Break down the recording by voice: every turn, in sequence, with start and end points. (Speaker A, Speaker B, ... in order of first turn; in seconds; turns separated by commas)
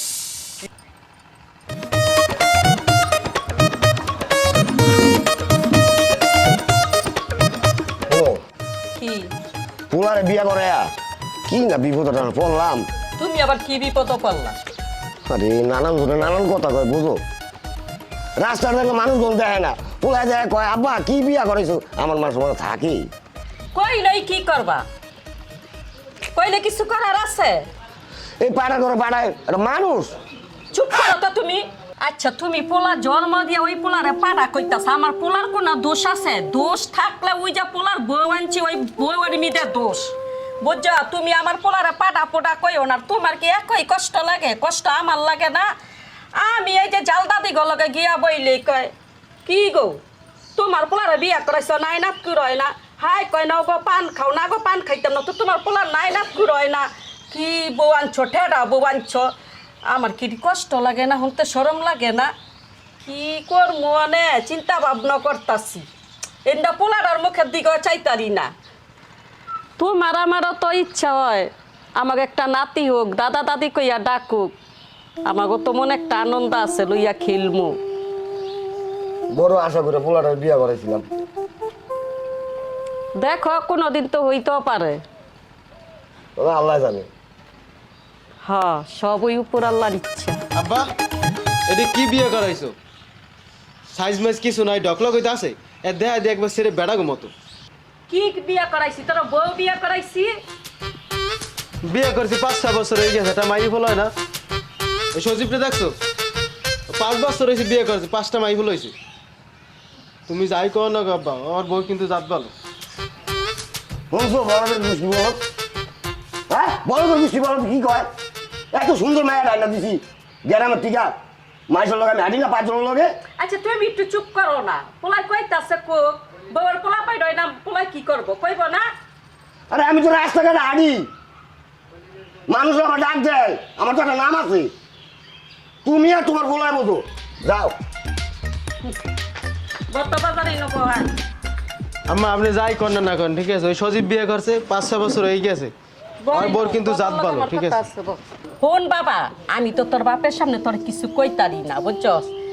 Speaker A: 8.1-8.4, Speaker B: 8.9-9.3, Speaker A: 9.9-10.9, Speaker A: 11.5-12.8, Speaker B: 13.2-14.6, Speaker A: 15.3-17.2, Speaker A: 18.4-23.1, Speaker B: 23.7-24.8, Speaker B: 26.3-27.6, Speaker A: 28.4-30.1, Speaker B: 30.7-45.7, Speaker B: 46.4-48.9, Speaker B: 49.4-50.0, Speaker B: 50.5-59.2, Speaker B: 59.9-62.3, Speaker B: 63.0-65.8, Speaker B: 66.5-68.5, Speaker B: 69.8-74.5, Speaker B: 75.3-77.8, Speaker A: 79.3-81.0, Speaker B: 83.2-85.0, Speaker A: 86.4-87.1, Speaker B: 88.4-90.4, Speaker C: 90.5-90.9, Speaker C: 91.7-92.7, Speaker C: 93.9-97.3, Speaker B: 98.1-100.3, Speaker C: 101.8-104.1, Speaker C: 105.1-106.0, Speaker C: 106.9-108.9, Speaker C: 110.3-112.5, Speaker A: 114.1-115.4, Speaker A: 116.5-118.1, Speaker A: 118.7-121.1, Speaker A: 121.7-123.1, Speaker B: 123.4-128.8, Speaker A: 129.7-131.1, Speaker A: 132.5-134.7, Speaker A: 135.8-137.7, Speaker B: 139.9-141.1, Speaker C: 142.1-145.7, Speaker B: 146.2-152.3, Speaker C: 146.3-147.8